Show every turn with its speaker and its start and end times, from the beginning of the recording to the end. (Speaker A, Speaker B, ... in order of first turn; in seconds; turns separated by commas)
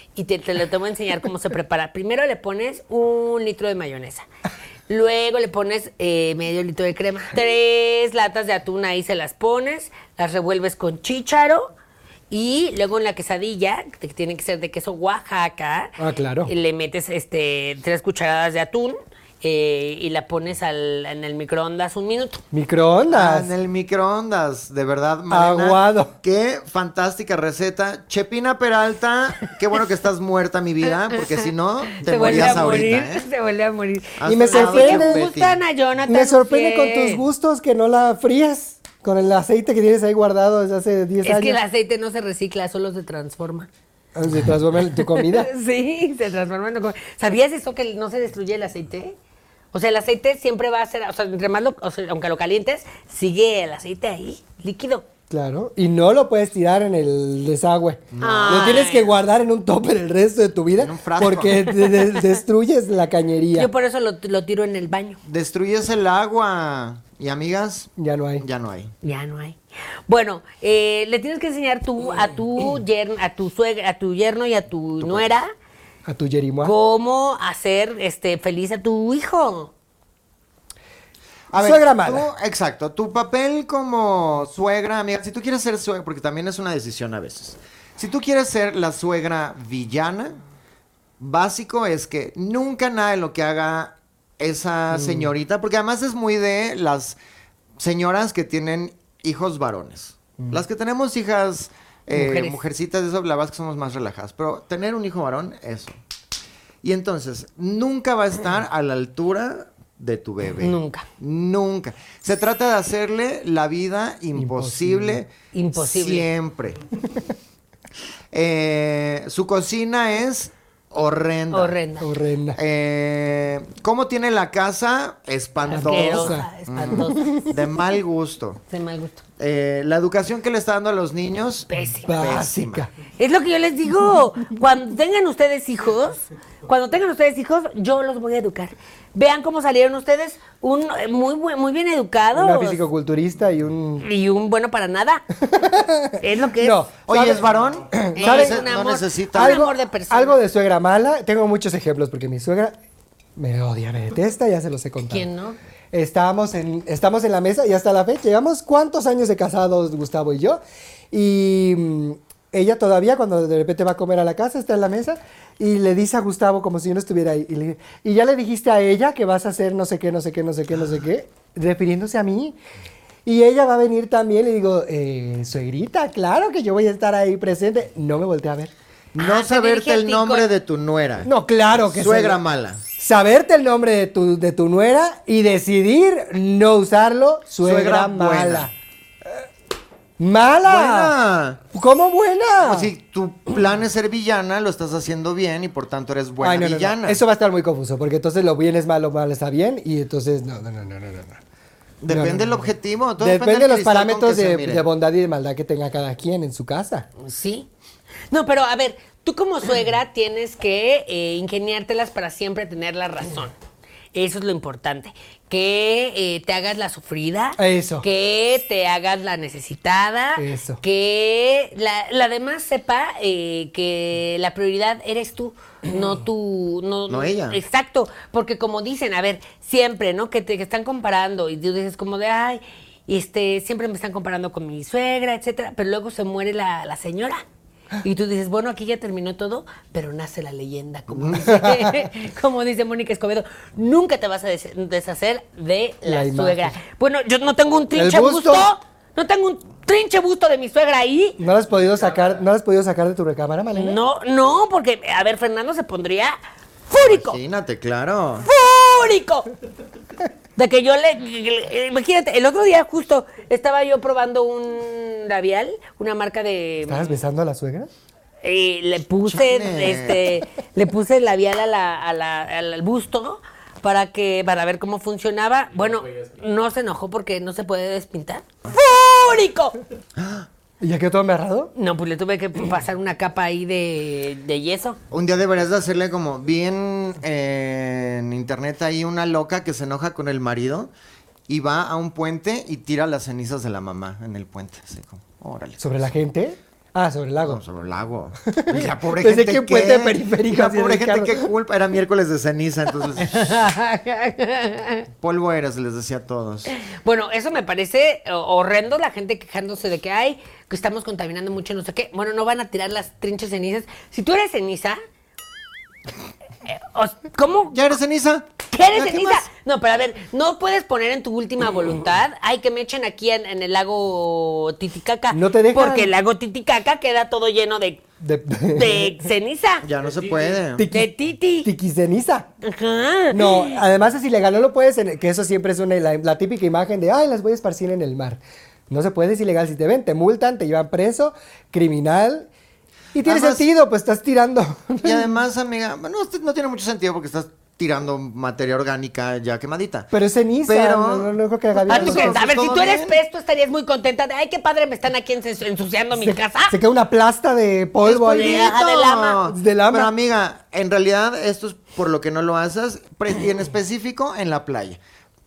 Speaker A: 0.1-4.3, Speaker A: 4.9-11.7, Speaker A: 12.3-22.4, Speaker B: 16.0-16.5, Speaker B: 22.5-23.5, Speaker C: 23.1-33.2, Speaker B: 25.3-26.1, Speaker A: 31.1-31.3, Speaker A: 31.9-37.2, Speaker B: 32.2-32.6, Speaker C: 34.2-35.6, Speaker B: 34.2-35.2, Speaker B: 36.1-41.6, Speaker A: 41.2-43.7, Speaker B: 44.1-45.5, Speaker A: 45.0-49.2, Speaker A: 49.7-55.1, Speaker B: 55.3-63.7, Speaker C: 58.1-58.9, Speaker A: 58.2-59.1, Speaker C: 60.8-61.6, Speaker A: 63.5-65.2, Speaker C: 65.2-68.9, Speaker B: 68.0-68.4, Speaker A: 69.0-75.5, Speaker C: 75.0-75.3, Speaker B: 76.0-76.7, Speaker A: 76.6-79.7, Speaker C: 81.5-90.4, Speaker B: 81.5-82.3, Speaker C: 91.2-97.2, Speaker B: 94.9-95.3, Speaker C: 97.8-106.0, Speaker A: 102.1-102.6, Speaker C: 106.8-116.8, Speaker A: 110.6-111.0, Speaker B: 114.3-115.2, Speaker A: 115.5-116.3, Speaker C: 118.3-121.8, Speaker A: 121.5-122.1, Speaker B: 122.0-122.6, Speaker C: 122.5-128.6, Speaker A: 125.7-127.5, Speaker B: 125.7-126.5, Speaker A: 128.7-129.2, Speaker C: 129.4-132.8, Speaker A: 131.7-132.1, Speaker B: 132.0-132.9, Speaker A: 133.2-142.8, Speaker B: 142.3-144.1, Speaker A: 144.0-145.2, Speaker B: 145.4-148.7, Speaker A: 146.2-146.8, Speaker C: 147.1-149.6, Speaker A: 148.1-150.4, Speaker B: 149.3-152.8, Speaker B: 153.3-155.3, Speaker A: 155.1-155.6, Speaker B: 155.9-160.6, Speaker B: 161.1-172.6, Speaker B: 173.2-178.7, Speaker C: 179.1-182.8, Speaker A: 179.2-180.5, Speaker B: 181.2-182.4, Speaker B: 183.0-188.7, Speaker C: 187.6-188.7, Speaker B: 190.2-191.1, Speaker C: 190.6-191.6, Speaker B: 191.7-192.9, Speaker C: 192.6-197.2, Speaker B: 196.4-201.4, Speaker C: 202.0-204.8, Speaker B: 202.1-202.6, Speaker B: 203.2-207.1, Speaker A: 207.2-207.7, Speaker A: 208.3-213.5, Speaker A: 214.1-237.4, Speaker B: 217.6-218.1, Speaker B: 220.4-220.8, Speaker C: 227.1-227.6, Speaker A: 238.0-251.4, Speaker B: 241.4-241.9, Speaker B: 246.0-246.7, Speaker B: 247.9-248.7, Speaker B: 251.4-254.0, Speaker A: 253.7-256.4, Speaker A: 256.9-257.4, Speaker C: 257.0-258.5, Speaker A: 258.4-259.5, Speaker A: 260.6-267.1, Speaker B: 266.9-267.9, Speaker A: 268.4-279.8, Speaker C: 269.3-270.3, Speaker C: 280.2-280.5, Speaker B: 280.8-281.7, Speaker A: 281.7-285.0, Speaker C: 285.1-290.9, Speaker C: 291.5-295.9, Speaker B: 295.8-297.6, Speaker C: 297.4-303.4, Speaker B: 298.5-301.5, Speaker A: 303.2-305.1, Speaker C: 305.2-306.7, Speaker A: 306.7-315.0, Speaker A: 316.6-317.9, Speaker C: 317.7-319.4, Speaker A: 318.7-328.0, Speaker B: 325.3-326.1, Speaker B: 328.2-329.2, Speaker A: 328.7-329.9, Speaker C: 329.8-330.9, Speaker B: 330.8-331.1, Speaker A: 330.9-331.7, Speaker B: 331.6-332.5, Speaker A: 332.6-333.8, Speaker B: 333.3-342.5, Speaker B: 343.1-345.3, Speaker C: 343.2-343.6, Speaker C: 345.0-350.1, Speaker B: 350.1-352.4, Speaker C: 350.6-353.2, Speaker A: 351.9-356.8, Speaker B: 356.1-358.7, Speaker C: 358.0-365.0, Speaker A: 358.3-359.4, Speaker B: 359.5-360.1